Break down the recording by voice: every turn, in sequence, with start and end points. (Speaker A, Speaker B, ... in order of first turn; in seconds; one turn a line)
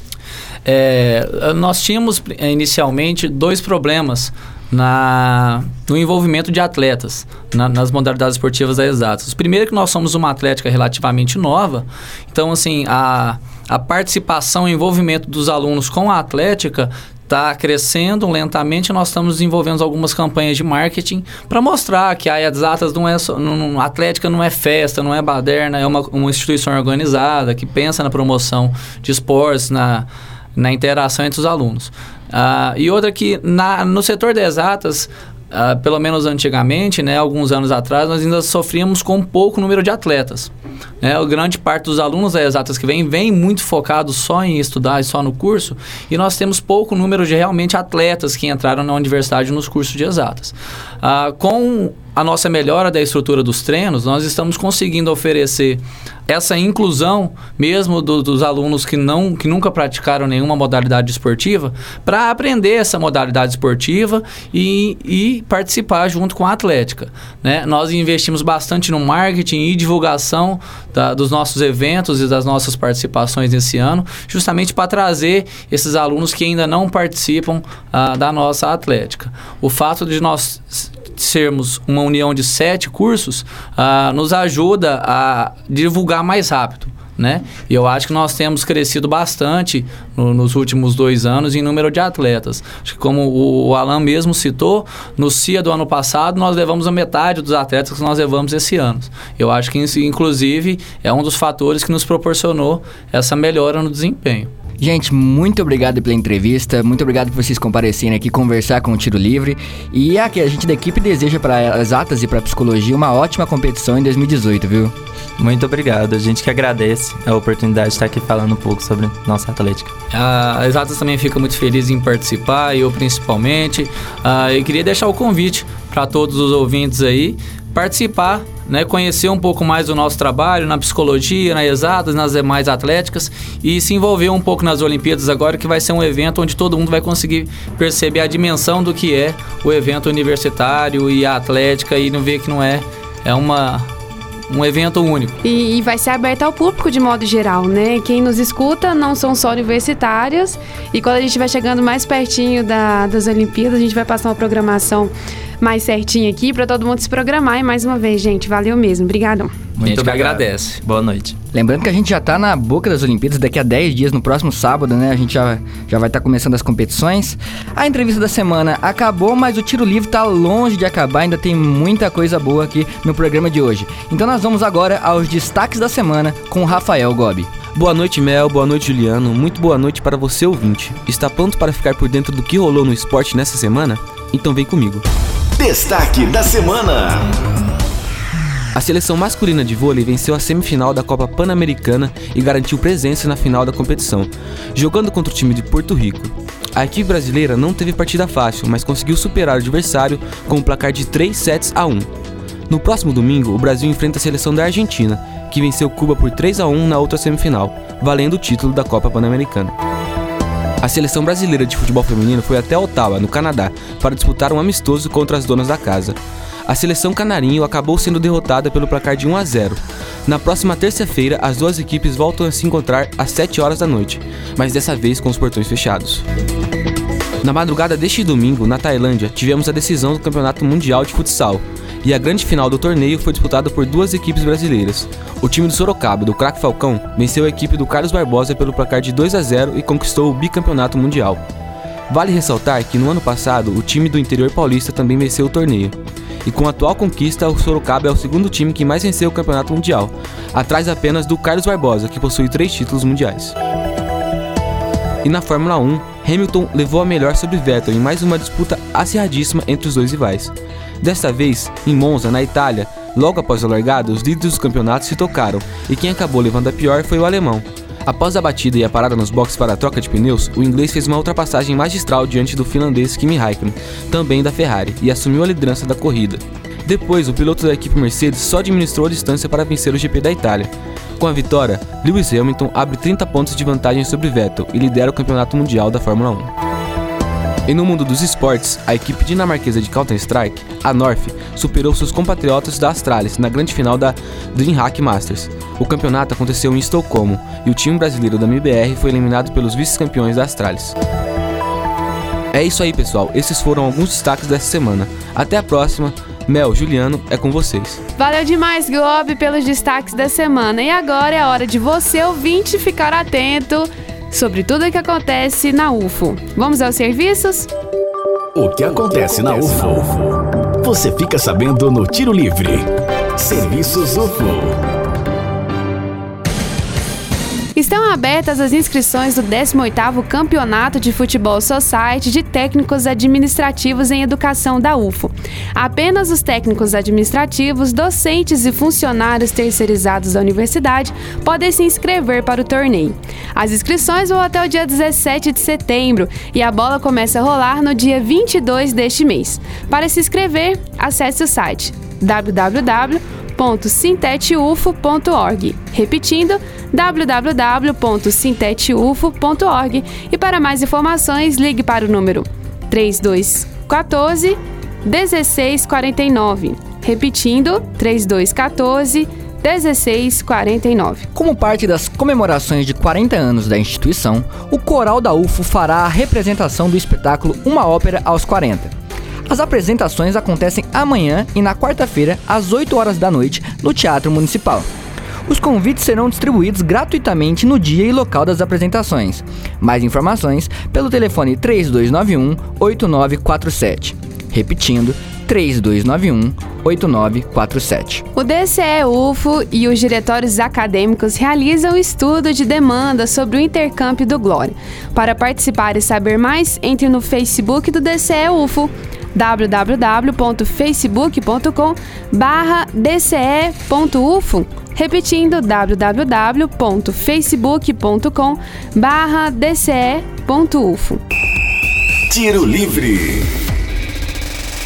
Speaker A: 0.6-104.5
Speaker B: 104.8-114.9
Speaker C: 115.4-119.9
Speaker A: 120.1-143.9
Speaker A: 144.5-145.4
Speaker D: 145.4-159.6
Speaker C: 159.8-161.3
Speaker A: 159.8-160.8
Speaker B: 161.5-177.5
Speaker E: 177.7-185.0
Speaker F: 185.6-187.3
Speaker E: 188.7-202.1
Speaker E: 202.7-209.7
Speaker E: 210.8-226.2
Speaker E: 227.4-241.4
Speaker E: 242.1-253.5
Speaker E: 255.2-286.5
Speaker E: 287.7-300.9
Speaker E: 302.5-308.0
Speaker D: 308.2-317.7
Speaker F: 318.5-324.8
Speaker D: 327.7-371.3
Speaker B: 371.3-378.9
Speaker B: 379.5-384.9
Speaker B: 385.4-398.2
Speaker D: 398.4-421.2
Speaker F: 422.3-423.6